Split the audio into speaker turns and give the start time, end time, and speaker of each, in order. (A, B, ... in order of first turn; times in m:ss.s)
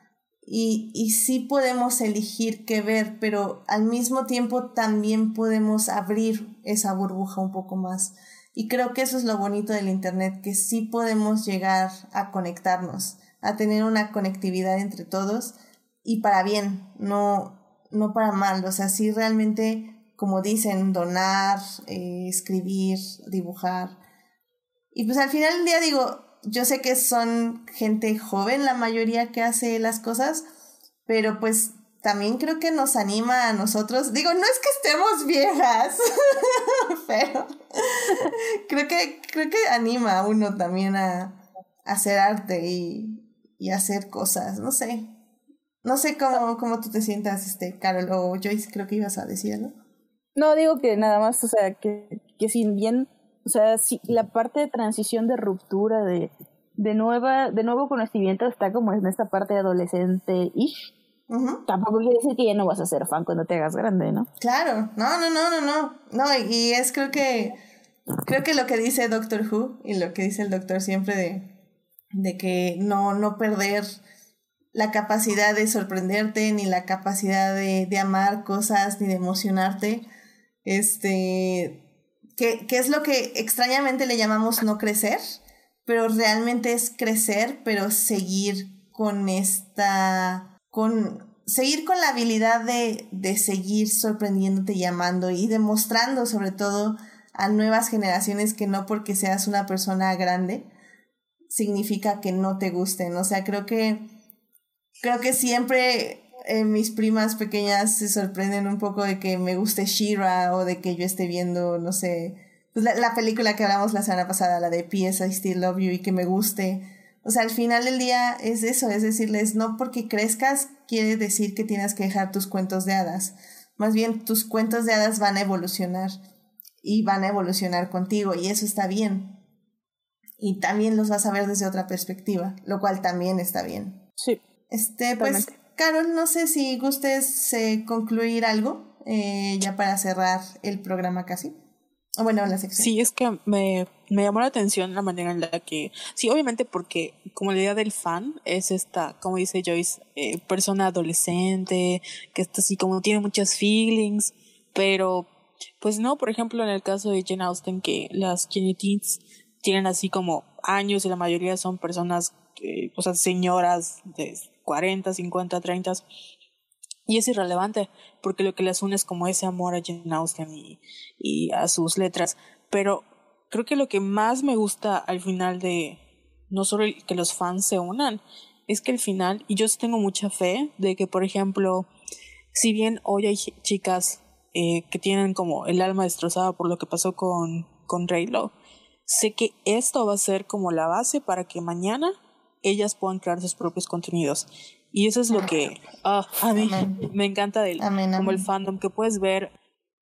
0:00.4-0:24.0 A
0:24.9-0:30.4 A
0:31.0-0:45.1 A
0:45.8-0:49.7 A
0:50.4-1:00.9 B
1:01.3-1:01.6 A
1:01.7-1:04.3 B
1:04.4-1:07.6 A
1:08.2-1:11.5 A
1:12.1-1:14.0 A
1:14.7-1:20.0 A
1:20.6-1:21.8 A
1:22.4-1:25.2 A
1:25.8-1:40.7 A
1:41.5-1:44.1 A
1:45.0-2:06.2 A
2:06.8-2:09.4 A
2:10.4-2:14.0 A
2:14.7-2:21.5 A
2:15.2-2:15.5 B
2:22.2-2:22.9 A
2:22.8-2:35.3 C
2:35.8-2:46.0 C
2:47.1-2:56.0 C
2:56.5-3:01.9 C
3:02.5-3:08.5 C
3:09.1-3:19.5 C
3:16.6-3:17.1 A
3:17.8-3:18.4 A